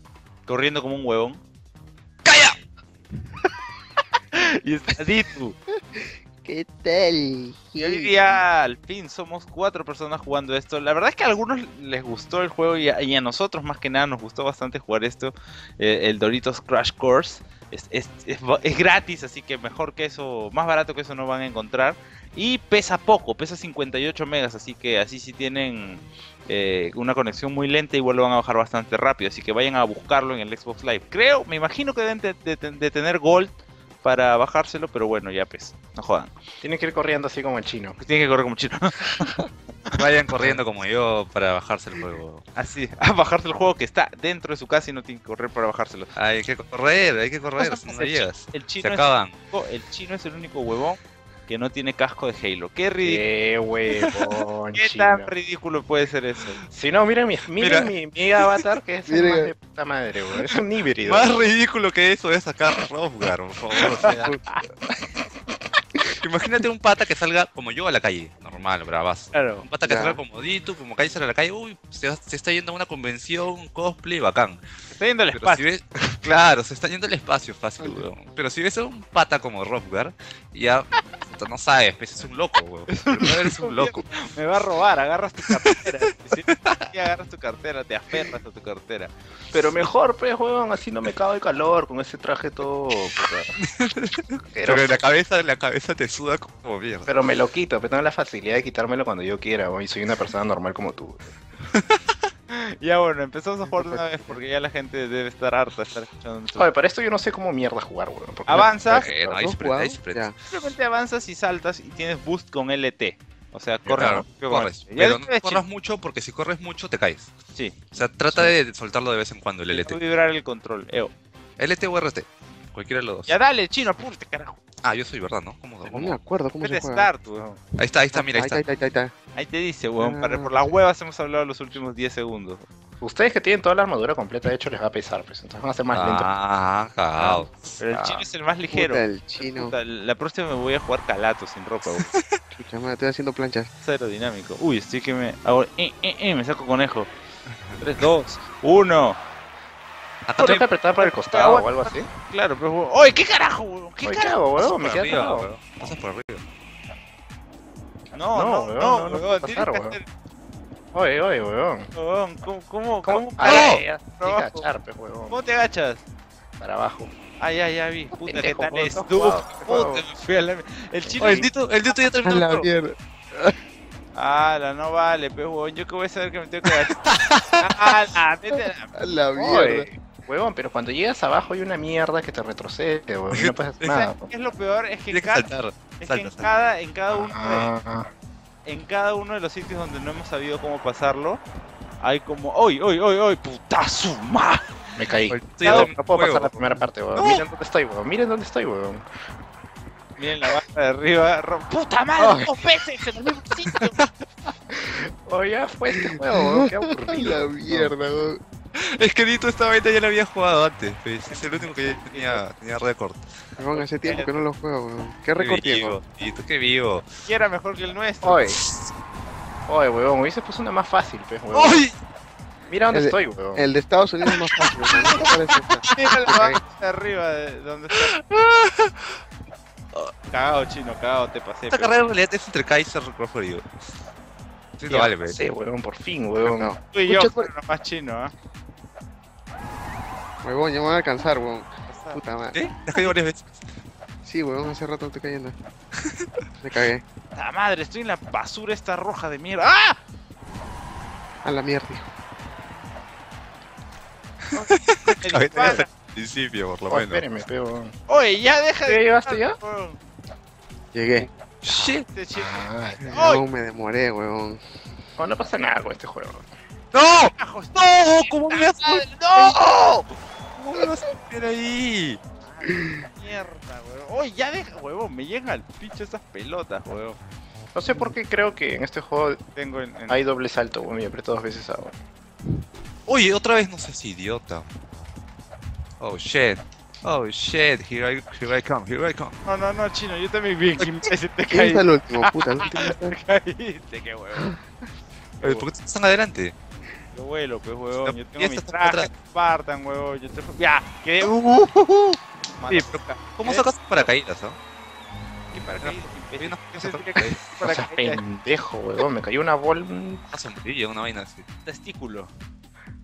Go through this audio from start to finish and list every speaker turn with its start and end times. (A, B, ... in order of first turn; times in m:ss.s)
0:00.4-0:01.4 A
0:04.3-0:05.6 A
0:05.9-0:08.4 B
0:07.8-0:36.3 A
0:36.6-0:38.0 C
0:38.0-0:40.0 A
0:39.9-0:42.4 D
0:42.6-0:46.1 A
0:46.2-0:49.3 D
0:47.6-0:53.2 A
0:53.0-0:55.3 C
0:54.8-0:56.6 A
0:56.7-1:01.5 C
0:57.6-0:58.6 D
0:59.1-0:59.5 B
1:01.0-1:04.3 D
1:04.0-1:04.6 A
1:04.0-1:04.4 B
1:06.2-1:14.6 D
1:09.3-1:09.6 A
1:09.8-1:10.2 B
1:14.9-1:15.6 A
1:15.3-1:24.2 D
1:22.9-1:29.1 A
1:26.6-1:26.9 D
1:29.5-1:33.5 C
1:33.6-1:37.1 D
1:34.5-1:34.9 C
1:37.1-1:41.3 C
1:42.5-1:46.7 A
1:43.7-1:44.4 B
1:46.6-1:49.4 C
1:48.5-1:49.1 A
1:48.9-1:50.3 D
1:49.4-1:50.3 B
1:50.5-1:55.6 A
1:53.8-1:57.3 D
1:57.5-1:57.8 A
1:57.9-2:00.0 D
1:58.3-1:58.5 B
1:59.7-2:01.1 A
2:01.6-2:03.3 D
2:03.3-2:04.6 A
2:04.8-2:06.2 D
2:05.8-2:07.1 B
2:06.6-2:07.6 A
2:07.8-2:08.6 D
2:08.1-2:09.1 B
2:09.3-2:12.7 A
2:10.0-2:10.6 B
2:13.0-2:16.3 C
2:15.9-2:18.2 D
2:17.8-2:22.1 A
2:18.7-2:19.7 B
2:21.9-2:22.4 D
2:22.5-2:23.7 B
2:23.8-2:27.1 A
2:27.7-2:28.0 D
2:27.8-2:29.2 A
2:30.2-2:30.6 D
2:30.4-2:32.1 C
2:31.0-2:34.5 A
2:34.0-2:35.9 C
2:34.6-2:36.4 D
2:38.1-2:40.1 A
2:38.3-2:40.0 C
2:40.9-2:41.9 C
2:41.9-2:44.7 A
2:43.0-2:45.4 C
2:43.4-2:43.8 D
2:45.3-2:46.0 A
2:46.6-2:47.1 C
2:47.4-2:52.7 A
2:48.2-2:50.0 C
2:51.0-2:51.5 C
2:51.2-2:52.1 D
2:52.2-2:53.5 B
2:54.1-2:57.0 A
2:56.7-2:57.6 D
2:57.6-2:58.9 A
2:58.9-2:59.9 B
2:59.4-3:04.3 C
3:03.3-3:04.0 D
3:03.9-3:07.7 A
3:05.1-3:06.5 D
3:07.1-3:08.1 C
3:08.6-3:11.4 A
3:12.0-3:14.7 A
3:15.0-3:19.0 C
3:15.3-3:16.6 D
3:15.6-3:15.9 A
3:17.1-3:17.4 D
3:20.2-3:24.1 A
3:24.7-3:28.0 C
3:25.9-3:28.4 B
3:28.7-3:33.3 D
3:31.3-3:32.4 A
3:33.6-3:36.0 B
3:33.7-3:34.4 A
3:35.4-3:37.1 D
3:37.2-3:38.4 A
3:38.2-3:38.6 C
3:38.6-3:38.9 D
3:39.7-3:41.8 C
3:41.5-3:42.0 D
3:42.7-3:43.7 C
3:42.9-3:46.6 B
3:45.0-3:45.3 D
3:45.8-3:46.3 D
3:45.9-3:48.1 A
3:47.9-3:49.2 D
3:50.3-3:52.0 A
3:51.7-3:53.7 D
3:54.8-3:55.4 D
3:54.9-3:55.1 A
3:55.3-3:56.7 C
3:56.4-3:57.5 B
3:56.9-3:58.3 A
4:00.4-4:02.6 B
4:01.9-4:02.2 A
4:02.5-4:03.6 D
4:04.2-4:05.5 B
4:06.6-4:07.0 B
4:07.3-4:10.0 A
4:11.4-4:12.0 B
4:14.5-4:15.9 A
4:14.5-4:17.2 D
4:16.9-4:17.9 C
4:18.1-4:20.0 A
4:18.8-4:19.6 C
4:20.9-4:21.3 B
4:21.6-4:22.0 D
4:21.9-4:23.4 A
4:22.3-4:23.2 C
4:23.0-4:24.6 B
4:25.2-4:26.5 C
4:26.9-4:30.0 D
4:27.4-4:29.9 A
4:30.6-4:32.2 D
4:32.4-4:37.2 A
4:37.7-4:39.4 C
4:39.6-4:40.2 A
4:40.1-4:41.9 C
4:43.1-4:44.6 D
4:46.0-4:49.3 D
4:49.4-4:54.6 A
4:51.5-4:53.2 B
4:55.4-4:55.7 A
4:55.4-4:56.5 D
4:57.1-5:01.5 A
4:58.0-4:59.1 D
5:01.2-5:01.7 D
5:02.5-5:04.1 A
5:02.7-5:04.6 D
5:05.5-5:08.2 A
5:05.6-5:07.4 D
5:07.6-5:10.2 C
5:10.3-5:11.4 D
5:11.6-5:12.3 A